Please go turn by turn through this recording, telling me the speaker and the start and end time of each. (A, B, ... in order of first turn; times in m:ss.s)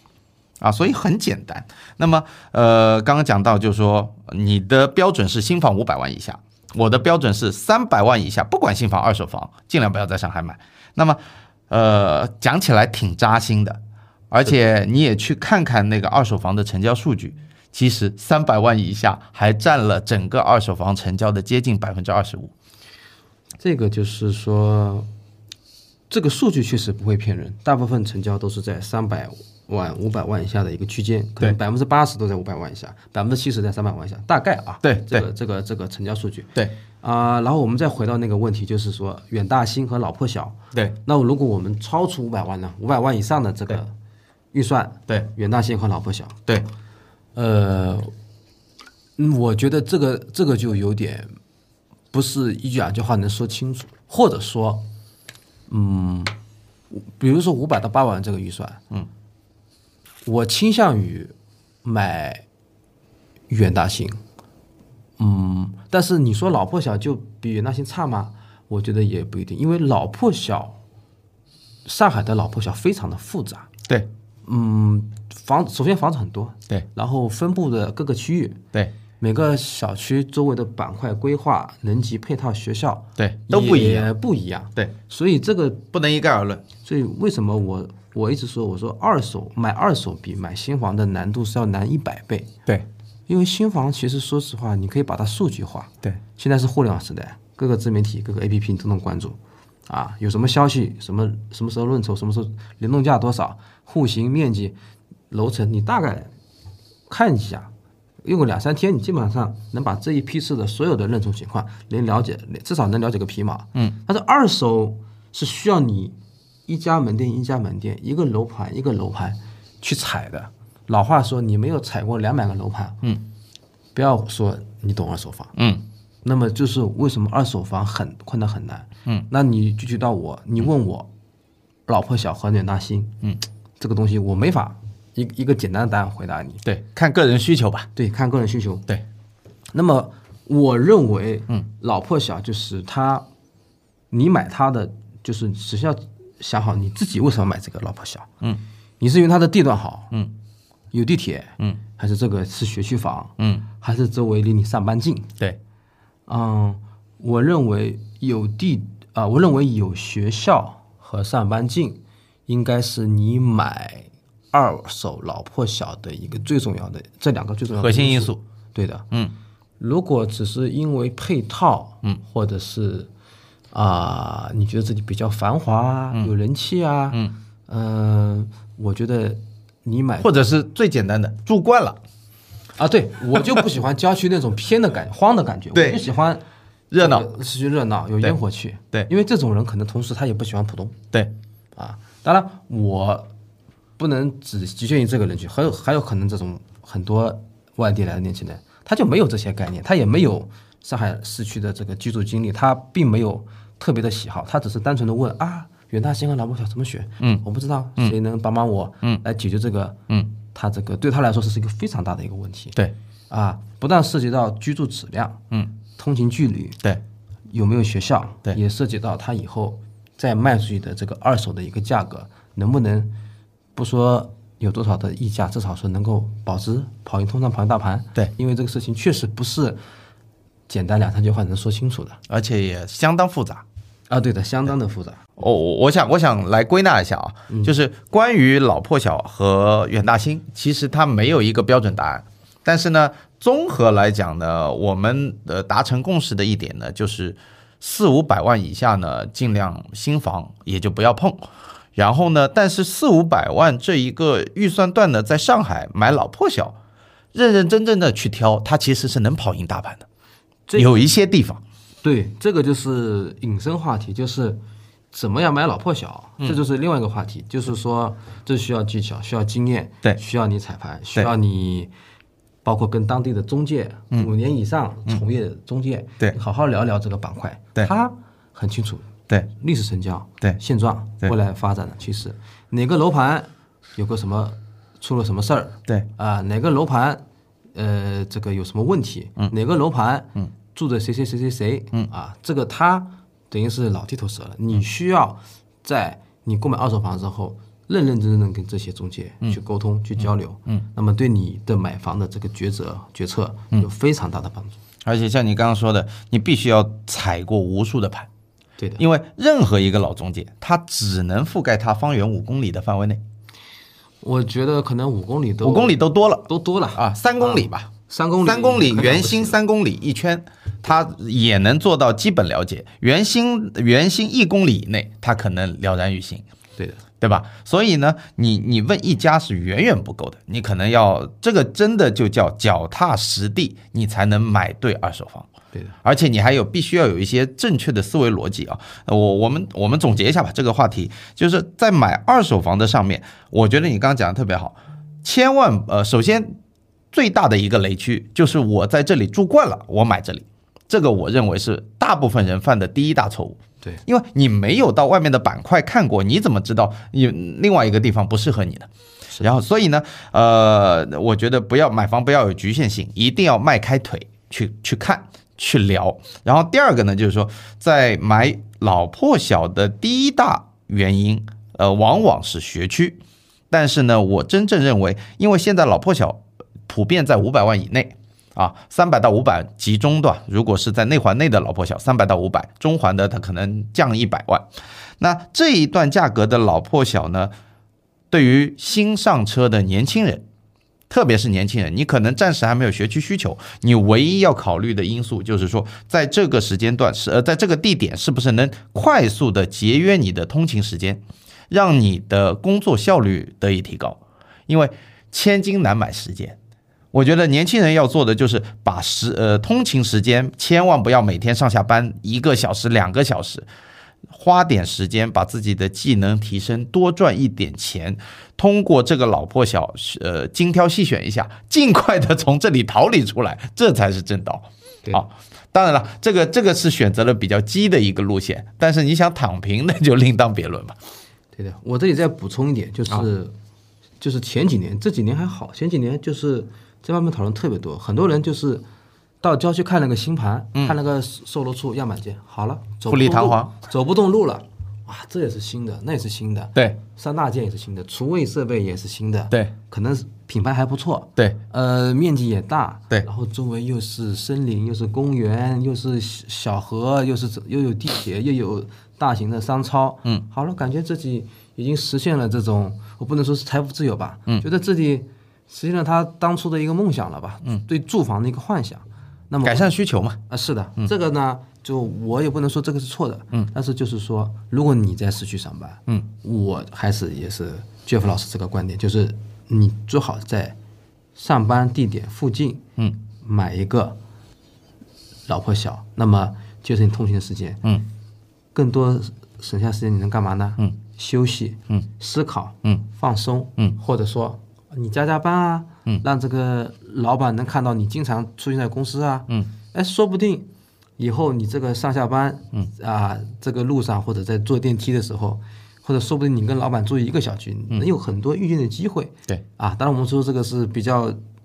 0:00.6-0:11.2 A
0:11.7-0:22.5 A
0:23.6-0:25.1 B
0:26.1-0:43.9 B
0:34.8-0:35.2 A
0:40.7-0:41.0 A
0:44.5-0:46.4 B
0:47.4-0:48.1 B
0:49.2-0:51.3 B
0:52.1-0:54.9 B
0:55.7-0:56.3 B
0:56.9-0:58.8 B
1:00.3-1:01.3 B
1:01.8-1:02.4 B
1:03.5-1:04.2 B
1:05.2-1:10.8 B
1:11.9-1:13.7 B
1:14.4-1:18.6 B
1:19.2-1:25.9 B
1:23.2-1:24.1 A
1:25.9-1:26.7 A
1:26.8-1:32.5 B
1:33.3-1:39.4 B
1:39.9-1:44.7 B
1:45.3-1:46.3 B
1:47.1-1:47.7 B
1:48.2-1:56.2 B
1:56.7-2:03.0 B
2:04.0-2:05.5 B
2:05.6-2:05.8 A
2:06.2-2:11.1 B
2:11.9-2:13.2 B
2:13.8-2:16.6 B
2:16.6-2:17.9 A
2:18.0-2:18.9 B
2:19.7-2:23.3 B
2:24.1-2:28.3 B
2:29.0-2:30.1 B
2:30.9-2:35.3 B
2:36.3-2:49.0 B
2:47.8-2:48.4 A
2:49.8-2:53.1 B
2:53.7-3:00.4 B
3:00.2-3:02.0 A
3:02.8-3:06.4 B
3:05.7-3:06.0 A
3:06.9-3:07.3 A
3:07.0-3:11.0 B
3:11.8-3:13.3 B
3:14.0-3:32.8 B
3:33.3-3:35.4 B
3:36.0-3:36.8 B
3:37.5-3:43.1 B
3:43.8-3:49.8 B
3:50.7-3:52.2 B
3:52.3-3:53.6 A
3:54.1-3:55.2 B
3:55.4-4:16.8 A
4:17.3-4:20.0 A
4:20.7-4:21.0 B
4:20.8-4:21.6 A
4:22.0-4:24.6 B
4:25.1-4:31.9 B
4:32.6-4:47.2 B
4:47.7-5:04.8 B
5:05.0-5:08.3 A
5:08.8-5:09.0 B
5:09.0-5:13.2 A
5:14.2-5:19.6 B
5:15.6-5:17.9 A
5:18.4-5:26.4 A
5:26.8-5:27.0 B
5:27.2-5:35.5 A
5:36.0-5:46.5 A
5:47.1-5:58.9 A
5:59.4-6:13.2 A
6:13.7-6:24.7 A
6:25.2-6:27.5 A
6:28.3-6:30.4 A
6:31.1-6:46.6 A
6:47.1-6:53.7 A
6:54.3-7:11.0 A
7:11.6-7:13.5 B
7:14.2-7:18.8 B
7:19.4-7:49.9 B
7:23.1-7:23.7 A
7:49.6-7:50.4 A
7:50.5-8:00.8 B
8:01.4-8:02.8 B
8:03.4-8:04.2 B
8:05.5-8:07.8 B
8:08.7-8:31.4 B